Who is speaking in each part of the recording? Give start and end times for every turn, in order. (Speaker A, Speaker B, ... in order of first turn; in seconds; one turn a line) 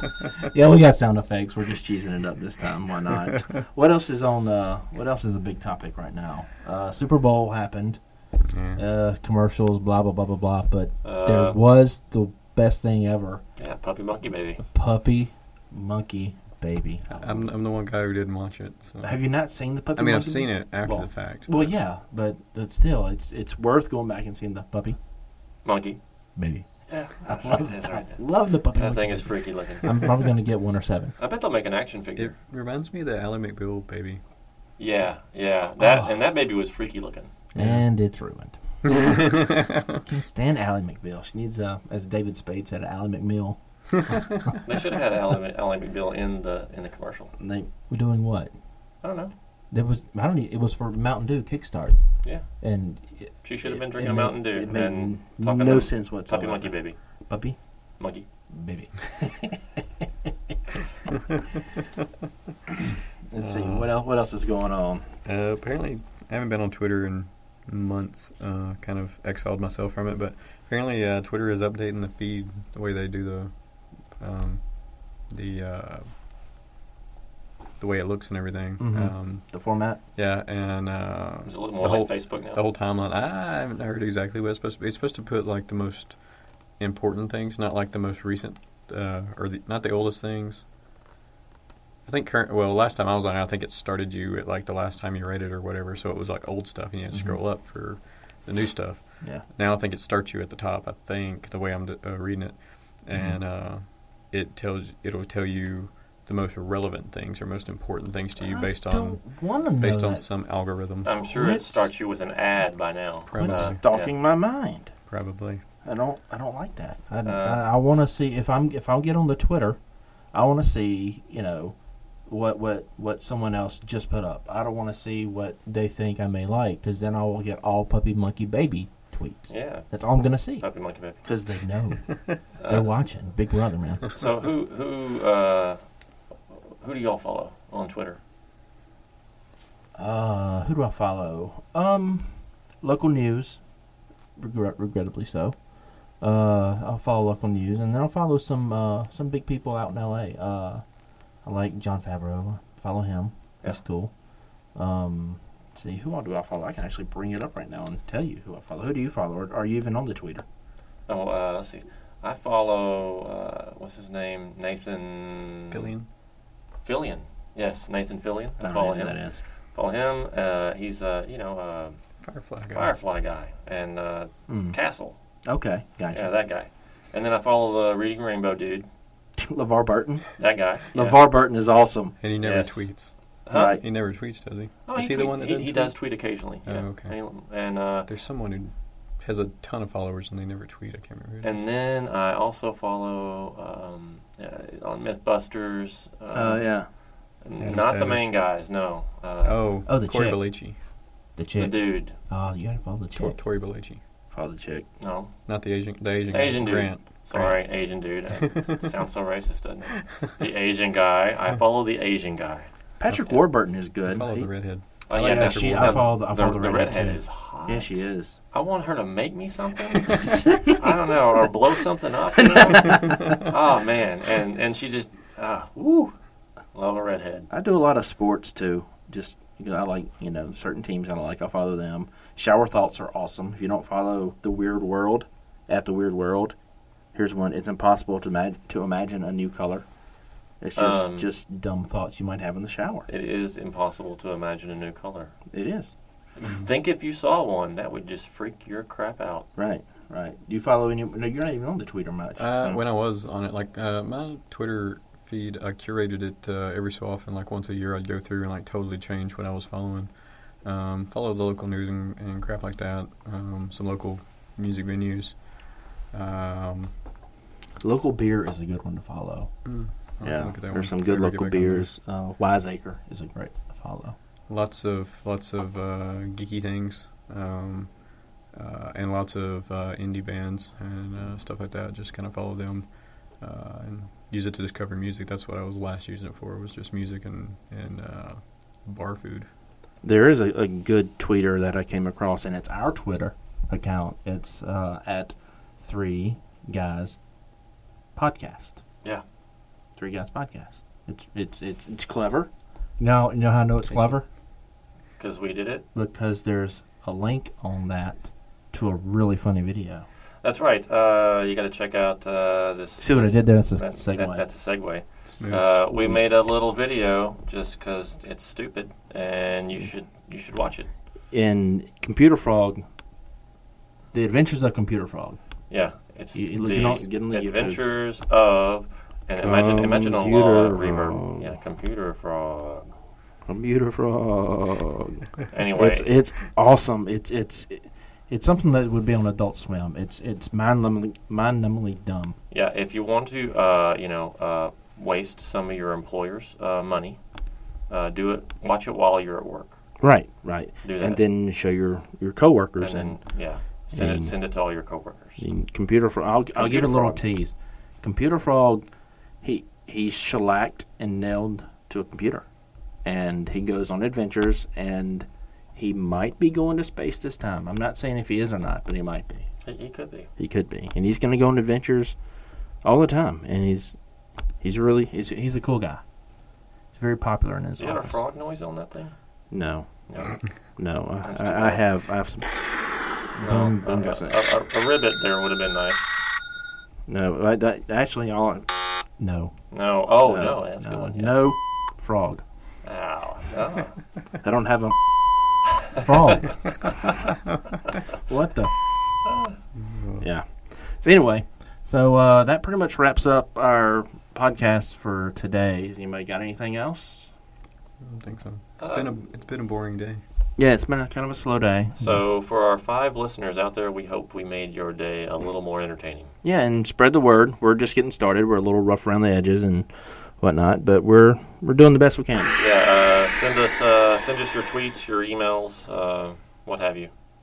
Speaker A: 0.3-8.0
Speaker B: 8.5-8.8
Speaker A: 8.7-13.4
Speaker C: 11.0-11.6
Speaker C: 13.6-14.6
Speaker A: 14.7-17.5
Speaker B: 17.1-19.2
Speaker A: 19.0-25.0
Speaker B: 19.9-21.7
Speaker C: 25.6-26.0
Speaker A: 26.4-31.1
Speaker C: 26.9-30.0
Speaker C: 31.2-32.3
Speaker B: 32.1-34.2
Speaker C: 34.8-37.3
Speaker A: 35.8-36.2
Speaker A: 37.5-38.6
Speaker B: 37.5-37.8
Speaker B: 39.0-39.8
Speaker A: 40.0-44.1
Speaker C: 44.6-47.3
Speaker A: 47.4-48.5
Speaker C: 49.0-49.3
Speaker A: 49.7-57.6
Speaker C: 53.4-57.0
Speaker C: 58.0-58.2
Speaker A: 58.5-59.6
Speaker A: 63.3-65.0
Speaker B: 63.4-63.9
Speaker B: 65.2-76.1
Speaker B: 77.8-90.6
Speaker A: 78.8-80.0
Speaker C: 81.4-82.6
Speaker B: 92.0-111.1
Speaker A: 97.1-97.4
Speaker A: 103.1-103.4
Speaker A: 108.4-110.2
Speaker C: 111.0-114.1
Speaker A: 111.2-111.9
Speaker B: 113.3-113.8
Speaker A: 113.3-114.9
Speaker B: 115.1-115.6
Speaker A: 115.8-119.8
Speaker C: 117.2-117.6
Speaker A: 120.3-130.7
Speaker C: 129.5-129.9
Speaker C: 130.6-131.2
Speaker A: 131.2-134.0
Speaker C: 132.6-132.9
Speaker C: 134.1-135.8
Speaker C: 136.5-138.2
Speaker A: 139.9-143.6
Speaker A: 144.4-145.6
Speaker A: 146.2-150.8
Speaker A: 151.4-154.1
Speaker A: 154.7-160.4
Speaker C: 161.1-165.9
Speaker B: 165.7-166.1
Speaker C: 166.8-172.0
Speaker A: 168.6-169.4
Speaker B: 172.2-172.9
Speaker C: 172.7-175.2
Speaker A: 174.5-174.8
Speaker A: 175.4-176.3
Speaker C: 176.1-178.8
Speaker A: 179.4-180.3
Speaker C: 180.4-181.2
Speaker A: 180.9-182.2
Speaker B: 182.2-185.9
Speaker C: 182.4-183.8
Speaker A: 183.5-183.8
Speaker C: 184.8-188.1
Speaker B: 186.6-187.2
Speaker B: 188.1-191.6
Speaker C: 191.4-196.8
Speaker A: 196.3-196.9
Speaker C: 197.4-199.6
Speaker B: 197.6-198.3
Speaker B: 199.4-200.8
Speaker A: 199.8-200.5
Speaker A: 201.4-203.4
Speaker C: 201.6-202.1
Speaker B: 203.1-204.0
Speaker A: 204.3-204.9
Speaker C: 205.0-205.3
Speaker B: 205.4-207.6
Speaker C: 206.3-213.4
Speaker A: 213.0-214.5
Speaker B: 214.1-216.1
Speaker C: 215.1-226.1
Speaker A: 215.1-218.4
Speaker A: 220.2-220.8
Speaker A: 222.5-223.3
Speaker C: 226.7-227.5
Speaker A: 227.5-236.5
Speaker A: 237.1-239.9
Speaker A: 240.6-243.1
Speaker C: 240.8-241.3
Speaker C: 243.1-245.3
Speaker A: 245.5-245.9
Speaker C: 246.4-249.5
Speaker A: 249.6-252.8
Speaker B: 252.4-265.6
Speaker B: 266.1-266.9
Speaker A: 267.8-269.5
Speaker B: 269.6-271.9
Speaker A: 270.2-274.2
Speaker B: 274.5-289.5
Speaker A: 290.0-297.2
Speaker A: 298.1-298.8
Speaker A: 299.9-304.2
Speaker C: 305.2-305.8
Speaker A: 305.9-310.0
Speaker C: 310.4-320.9
Speaker A: 313.0-314.4
Speaker B: 315.3-315.6
Speaker A: 315.5-316.1
Speaker A: 321.3-322.8
Speaker A: 324.1-325.4
Speaker C: 325.7-332.9
Speaker A: 326.3-327.9
Speaker A: 329.4-331.5
Speaker A: 333.5-342.4
Speaker C: 335.5-336.1
Speaker C: 342.5-347.2
Speaker C: 347.9-349.8
Speaker A: 350.0-353.2
Speaker C: 350.8-351.2
Speaker C: 352.8-355.4
Speaker A: 353.9-354.3
Speaker A: 355.4-358.8
Speaker C: 356.5-357.2
Speaker A: 359.4-362.4
Speaker A: 363.0-369.5
Speaker C: 369.6-370.3
Speaker A: 370.4-372.2
Speaker A: 372.8-374.0
Speaker A: 374.6-376.0
Speaker A: 376.9-378.2
Speaker C: 377.8-379.1
Speaker A: 379.5-380.0
Speaker C: 380.1-380.4
Speaker A: 380.7-382.6
Speaker C: 381.2-381.8
Speaker A: 383.3-384.3
Speaker C: 383.4-386.2
Speaker A: 387.1-389.5
Speaker C: 389.7-391.4
Speaker A: 390.1-392.4
Speaker C: 392.8-394.0
Speaker A: 394.4-394.9
Speaker A: 395.9-396.6
Speaker A: 398.1-398.7
Speaker C: 399.3-399.5
Speaker B: 399.8-400.2
Speaker A: 400.2-407.3
Speaker B: 408.0-410.2
Speaker C: 408.8-409.2
Speaker A: 410.6-412.2
Speaker C: 412.0-416.3
Speaker A: 416.4-422.5
Speaker C: 422.6-427.1